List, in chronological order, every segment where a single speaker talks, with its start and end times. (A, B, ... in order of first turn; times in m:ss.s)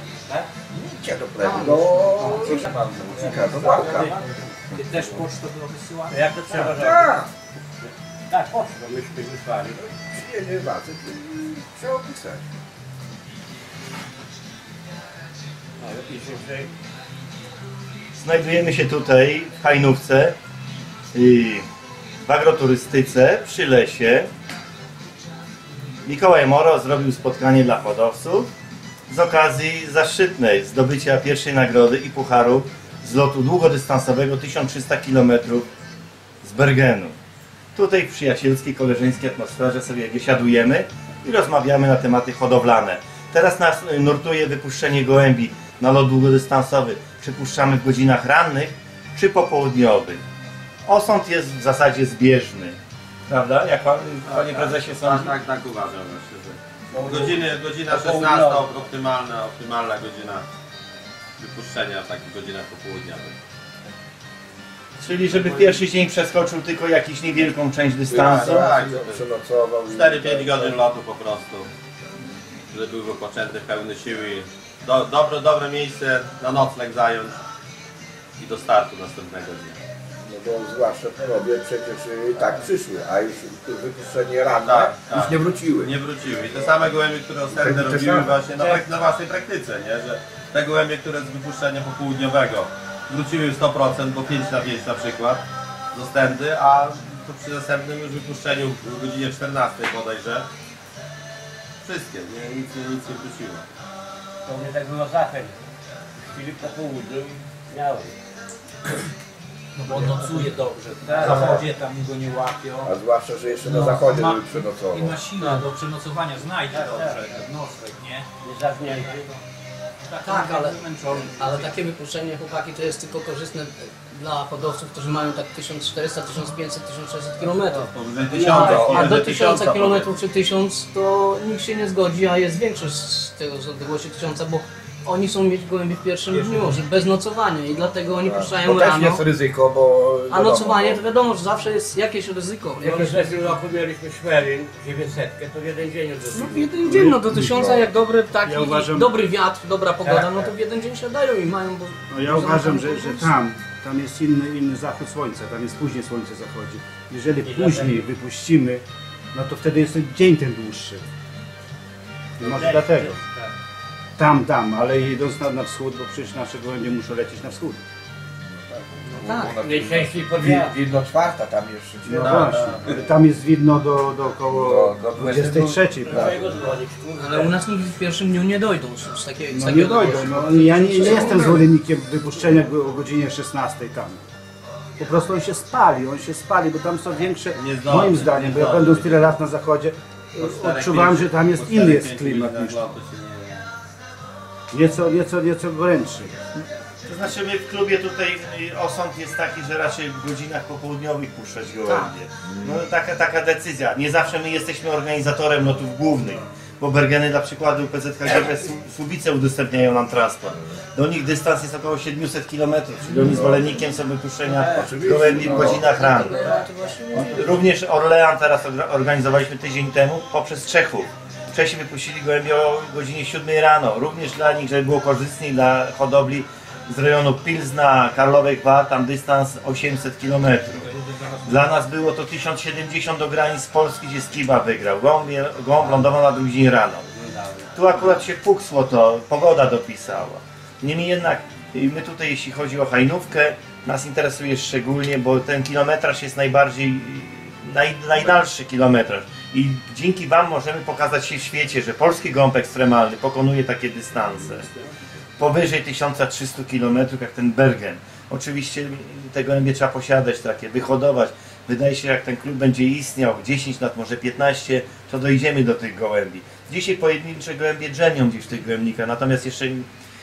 0:00.7-0:04.2 A
0:01.4-0:02.5 B
0:01.6-0:05.2 C
0:03.7-0:06.2 D
0:04.7-0:05.2 A
0:06.1-0:07.2 C
0:06.5-0:07.3 A
0:07.8-0:10.0 C
0:10.0-0:12.5 A
0:15.8-0:16.7 C
0:18.2-0:20.4 E
0:21.1-0:21.6 E
0:22.2-0:24.3 E
0:26.0-0:28.5 E
0:29.1-0:35.7 E
0:36.4-0:37.1 E
0:37.7-0:50.2 E
0:50.8-0:52.8 E
0:53.3-0:55.4 E
0:54.3-1:00.4 F
0:56.9-0:58.8 C
1:01.4-1:03.3 F
1:05.0-1:08.7 E
1:08.1-1:10.8 A
1:08.3-1:09.2 F
1:09.9-1:11.7 F
1:12.7-1:17.4 F
1:18.4-1:19.8 F
1:20.2-1:25.9 A
1:24.6-1:40.5 F
1:27.5-1:28.4 A
1:41.8-1:43.6 F
1:44.4-1:45.6 C
1:46.3-1:48.1 C
1:49.8-1:52.9 D
1:49.9-1:50.4 B
1:50.4-1:51.6 C
1:51.2-1:51.7 A
1:52.8-1:55.2 A
1:53.6-1:58.2 D
1:56.7-1:57.4 C
1:58.4-1:59.3 C
1:58.9-1:59.3 D
2:00.1-2:01.7 D
2:00.2-2:07.9 B
2:07.5-2:10.1 F
2:08.3-2:09.1 C
2:08.5-2:19.2 B
2:16.3-2:16.8 C
2:18.2-2:21.0 A
2:20.3-2:23.5 B
2:22.8-2:26.7 C
2:26.3-2:33.4 B
2:26.4-2:26.8 A
2:26.9-2:27.6 G
2:27.5-2:27.9 A
2:28.4-2:29.1 G
2:30.0-2:30.5 C
2:32.1-2:41.0 G
2:37.4-2:38.1 C
2:42.4-2:43.1 G
2:42.4-2:43.5 C
2:44.2-2:47.8 G
2:48.6-2:52.9 A
2:49.2-2:49.6 B
2:49.6-2:50.8 C
2:52.0-2:56.1 G
2:52.2-2:53.1 F
2:54.5-2:56.7 A
2:56.1-2:57.6 C
2:57.1-3:01.6 B
2:59.5-3:04.2 G
3:01.0-3:01.5 A
3:05.0-3:12.8 G
3:07.6-3:09.2 F
3:10.4-3:13.7 F
3:14.7-3:16.4 G
3:16.6-3:36.4 E
3:22.5-3:22.8 A
3:33.1-3:33.9 A
3:34.5-3:36.7 C
3:34.8-3:36.0 A
3:35.8-3:37.6 B
3:37.2-3:50.9 E
3:50.9-3:51.4 C
3:51.4-3:57.1 E
3:55.8-3:56.2 C
3:57.1-3:58.2 C
3:57.7-4:14.7 E
4:15.4-4:29.9 E